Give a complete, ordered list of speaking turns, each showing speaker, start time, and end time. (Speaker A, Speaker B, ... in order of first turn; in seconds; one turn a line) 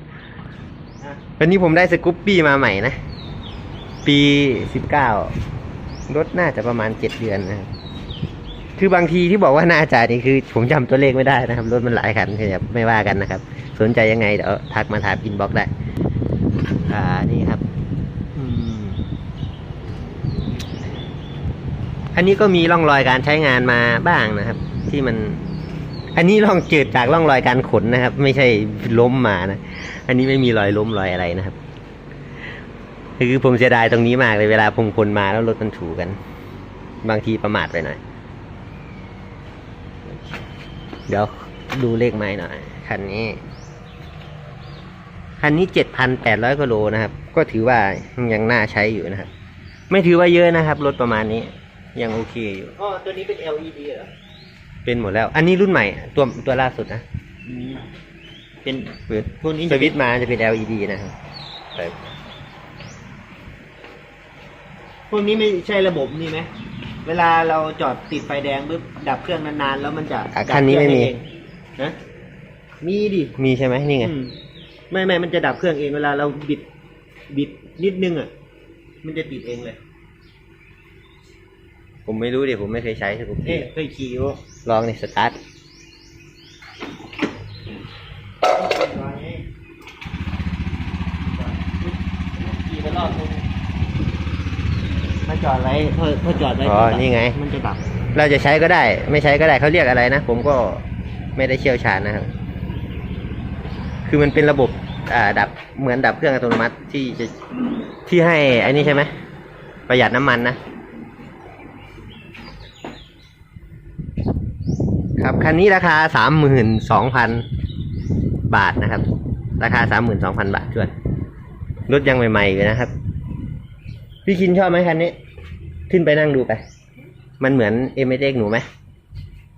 Speaker A: 1.4-3.0
Speaker A: 4.0-5.3
Speaker A: 6.1-7.7
Speaker A: 8.8-15.7
Speaker A: 16.8-17.6
Speaker A: 18.4-19.0
Speaker A: 22.1-25.4
Speaker A: 26.1-31.6
Speaker A: 33.2-36.2
Speaker A: 37.0-38.0
Speaker A: 41.1-43.4
Speaker A: 45.4-49.3
Speaker A: 49.9-52.8
Speaker B: 52.8-54.1
Speaker A: 54.9-57.0
Speaker B: 57.5-57.8
Speaker A: 58.7-61.1
Speaker B: 59.4-60.0
Speaker A: 61.8-62.1
Speaker B: 65.1-66.5
Speaker B: 67.0-71.2
Speaker A: 70.3-71.1
Speaker B: 72.8-73.3
Speaker A: 73.4-74.1
Speaker B: 74.0-74.3
Speaker B: 74.9-76.6
Speaker B: 77.3-78.3
Speaker B: 79.0-79.8
Speaker A: 82.1-83.7
Speaker B: 83.5-84.4
Speaker A: 84.7-85.4
Speaker B: 88.5-89.4
Speaker B: 91.2-93.5
Speaker B: 95.3-97.9
Speaker A: 96.6-97.4
Speaker A: 98.2-100.8
Speaker A: 101.4-102.3
Speaker A: 104.0-107.3
Speaker A: 108.1-109.1
Speaker A: 109.9-110.6
Speaker A: 115.2-117.4
Speaker A: 118.5-119.0
Speaker A: 119.6-120.9
Speaker A: 121.9-122.9
Speaker A: 124.3-125.2
Speaker A: 125.9-126.6
Speaker A: 127.4-128.7